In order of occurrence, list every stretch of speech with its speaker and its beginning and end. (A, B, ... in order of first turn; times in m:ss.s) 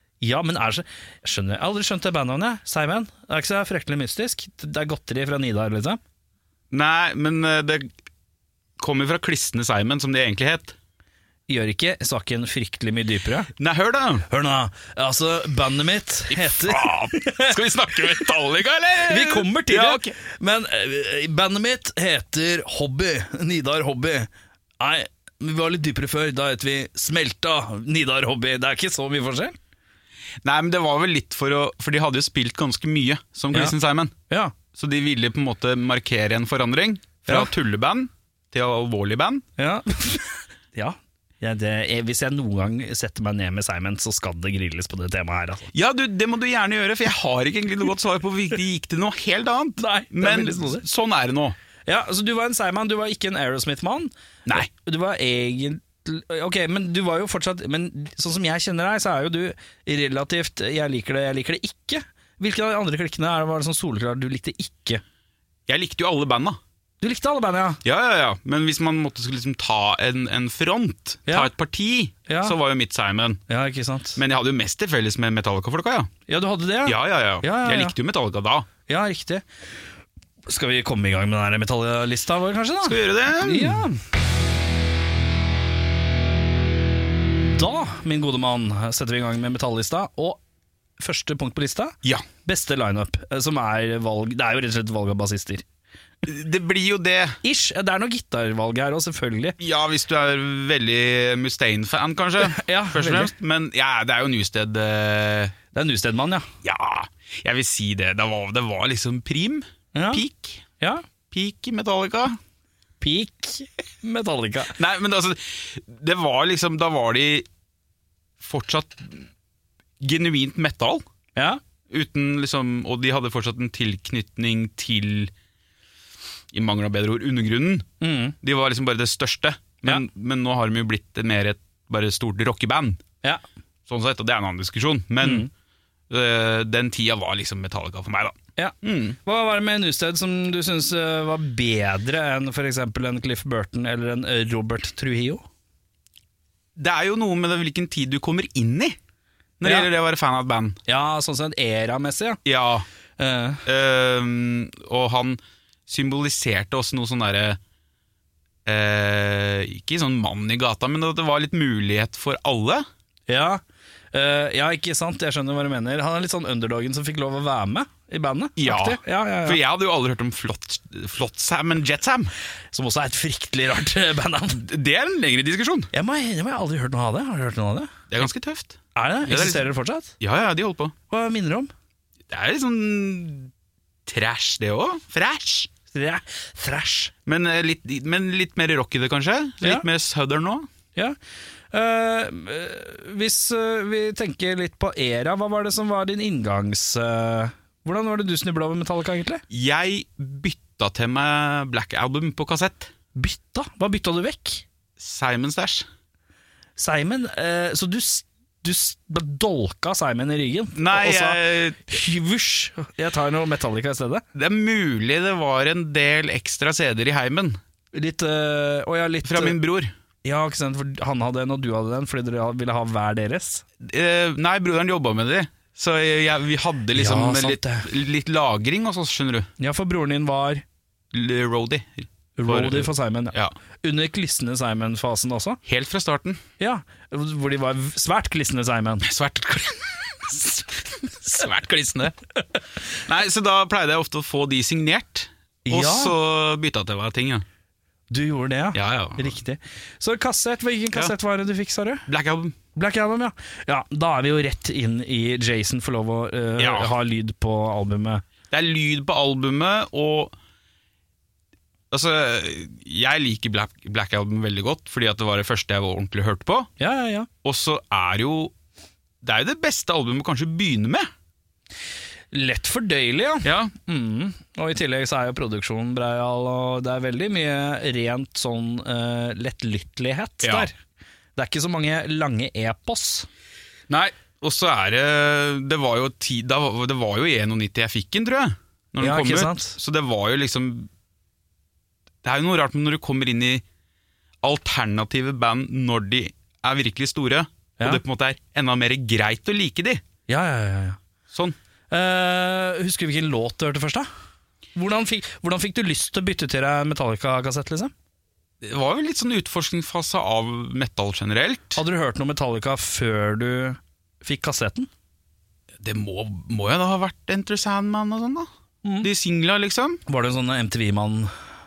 0:00.2-0:06.0 A
0:06.7-0:07.9 B
0:08.8-0:10.8 B
0:11.5-0:13.5 A
0:13.6-0:14.3 B
0:14.3-0:18.2 A
0:16.3-0:20.1 B
0:19.0-0:24.3 A
0:24.8-0:29.6 A
0:30.4-0:34.1 B
0:34.3-0:34.5 A
0:34.7-0:39.4 B
0:37.3-0:37.5 A
0:39.6-0:45.7 A
0:45.7-0:51.6 B
0:49.8-0:50.8 A
0:51.9-1:05.0 A
1:05.7-1:06.6 B
1:07.0-1:07.8 A
1:07.8-1:13.4 B
1:12.3-1:12.6 A
1:13.5-1:14.2 A
1:14.2-1:16.1 B
1:16.3-1:17.9 A
1:16.8-1:18.7 B
1:18.8-1:19.4 A
1:20.5-1:24.0 A
1:22.8-1:23.8 B
1:27.4-1:30.4 A
1:31.0-1:35.6 A
1:36.2-1:37.4 B
1:37.4-1:39.6 A
1:39.6-1:45.5 B
1:42.4-1:43.3 A
1:45.7-1:46.5 A
1:46.6-1:50.6 B
1:49.9-1:50.2 A
1:51.3-1:52.4 B
1:53.0-1:54.7 A
1:54.8-1:57.5 B
1:58.4-1:59.2 B
2:00.0-2:01.0 B
2:01.9-2:05.3 B
2:06.5-2:07.9 B
2:08.0-2:08.3 A
2:08.4-2:13.0 B
2:13.9-2:15.5 B
2:15.2-2:15.5 A
2:16.1-2:19.2 B
2:18.6-2:25.4 A
2:26.8-2:29.0 B
2:29.6-2:30.8 B
2:29.6-2:29.9 A
2:30.9-2:32.4 A
2:32.4-2:32.8 B
2:33.2-2:33.6 A
2:33.6-2:37.6 B
2:38.6-2:42.8 B
2:43.3-2:43.6 A
2:44.1-2:49.6 A
2:48.6-2:52.3 B
2:52.7-2:54.6 A
2:54.5-2:55.9 B
2:55.9-2:57.9 A
2:58.1-3:00.9 B
2:58.9-3:00.1 A
3:01.1-3:01.7 A
3:02.3-3:03.5 B
3:04.0-3:05.7 B
3:05.9-3:07.1 A
3:07.2-3:10.7 B
3:11.7-3:19.4 A
3:19.5-3:22.9 B
3:23.1-3:24.6 A
3:25.0-3:25.8 B
3:26.8-3:34.2 A
3:30.7-3:32.0 B
3:34.3-3:37.6 B
3:37.9-3:39.6 A
3:39.2-3:39.9 B
3:40.2-3:43.6 A
3:43.8-3:49.5 B
3:46.9-3:47.9 A
3:49.6-3:50.6 A
3:51.1-3:53.5 B
3:52.4-3:55.6 A
3:55.6-3:56.4 B
3:56.6-3:59.1 A
3:59.0-4:02.1 B
4:03.0-4:07.4 B
4:05.6-4:06.1 A
4:08.1-4:12.0 A
4:08.7-4:09.4 B
4:12.1-4:12.6 B
4:12.7-4:18.2 A
4:16.6-4:16.9 B
4:18.5-4:20.3 B
4:21.9-4:26.7 B
4:26.8-4:27.3 A
4:27.4-4:28.5 B
4:29.2-4:31.1 B
4:32.3-4:40.7 A
4:33.4-4:33.7 B
4:40.4-4:40.7 B
4:41.4-4:43.3 A
4:43.9-4:50.9 B
4:49.0-4:49.8 A
4:52.2-4:53.6 B
4:54.4-5:00.0 B
5:00.3-5:01.0 A
5:01.3-5:01.6 B
5:01.9-5:04.1 A
5:04.8-5:07.9 A
5:08.6-5:11.8 B
5:11.8-5:14.9 A
5:15.8-5:18.5 B
5:19.0-5:20.0 B
5:20.1-5:21.3 A